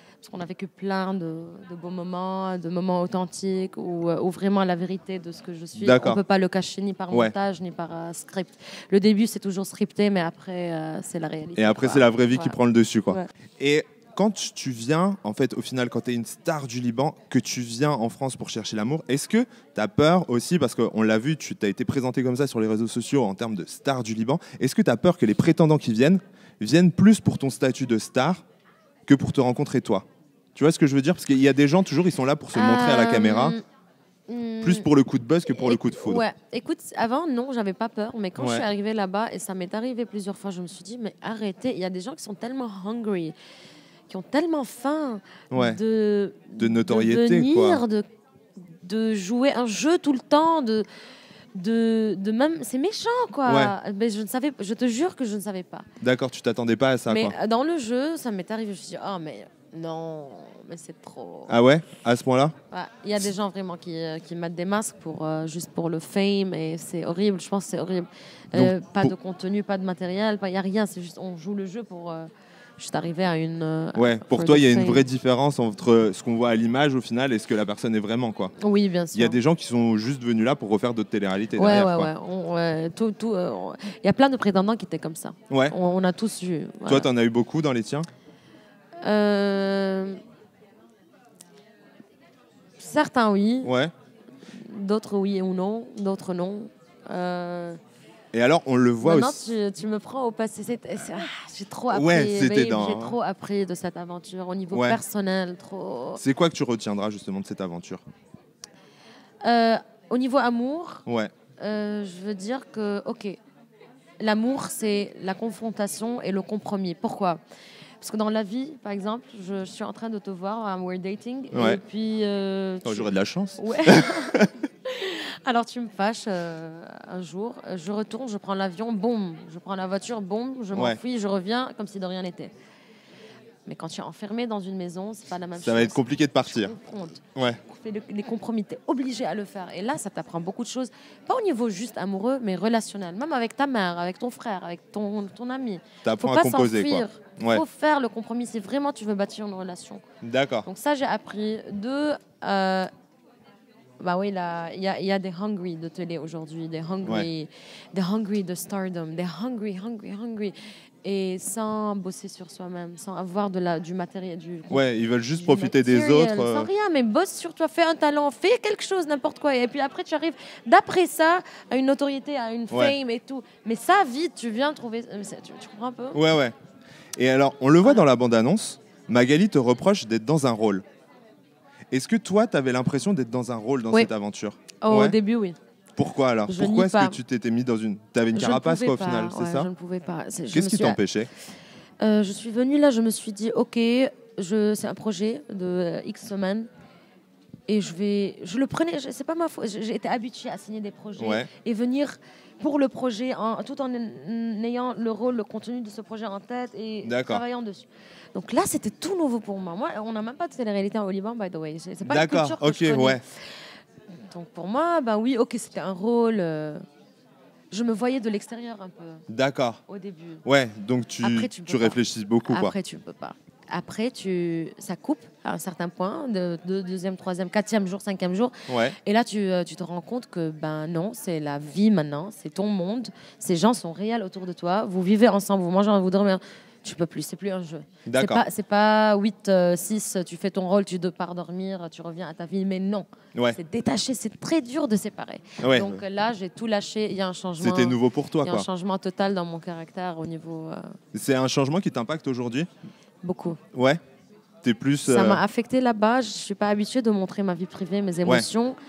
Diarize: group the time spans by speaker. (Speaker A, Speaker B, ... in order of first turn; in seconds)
Speaker A: 0.2-12.6, 32.5-33.6, 34.3-34.9, 35.5-43.3, 44.1-48.0, 48.8-50.9, 51.5-55.9, 57.1-61.5, 62.7-72.3, 72.8-75.0, 78.6-79.4, 81.6-87.1, 89.0-90.2, 92.8-93.7, 94.6-97.8, 99.0-106.2, 109.5-111.0, 111.6-113.4, 114.2-117.4, 118.0-132.5, 133.7-150.0, 150.7-152.9, 154.0-160.5, 161.0-176.2, 184.8-185.6, 186.5-187.2, 188.3-191.0, 192.0-196.7, 197.7-213.2, 214.3-216.8, 217.7-219.2, 219.9-220.4, 221.2-228.5, 229.0-250.8, 253.2-253.6, 255.1-258.8
Speaker B: 5.8-6.2, 11.6-28.4, 29.1-30.1, 30.6-33.6, 34.6-36.2, 38.4-38.6, 45.5-45.8, 46.6-47.8, 53.5-53.7, 56.0-57.3, 61.5-62.5, 68.5-69.1, 74.0-78.5, 79.2-82.1, 86.9-88.1, 93.6-93.9, 98.3-99.5, 101.9-103.2, 104.7-105.0, 106.2-108.0, 111.1-111.3, 121.5-121.8, 122.8-124.5, 130.7-131.0, 135.6-136.7, 146.1-147.6, 150.2-150.7, 164.7-166.7, 176.1-176.5, 177.2-180.8, 181.9-185.2, 186.0-189.7, 190.5-191.3, 201.2-201.5, 207.0-207.4, 212.1-213.2, 219.3-219.8, 220.4-222.7, 228.7-229.0, 238.1-238.4, 245.6-246.0, 247.6-248.7, 251.1-252.7, 253.8-254.0, 254.6-255.4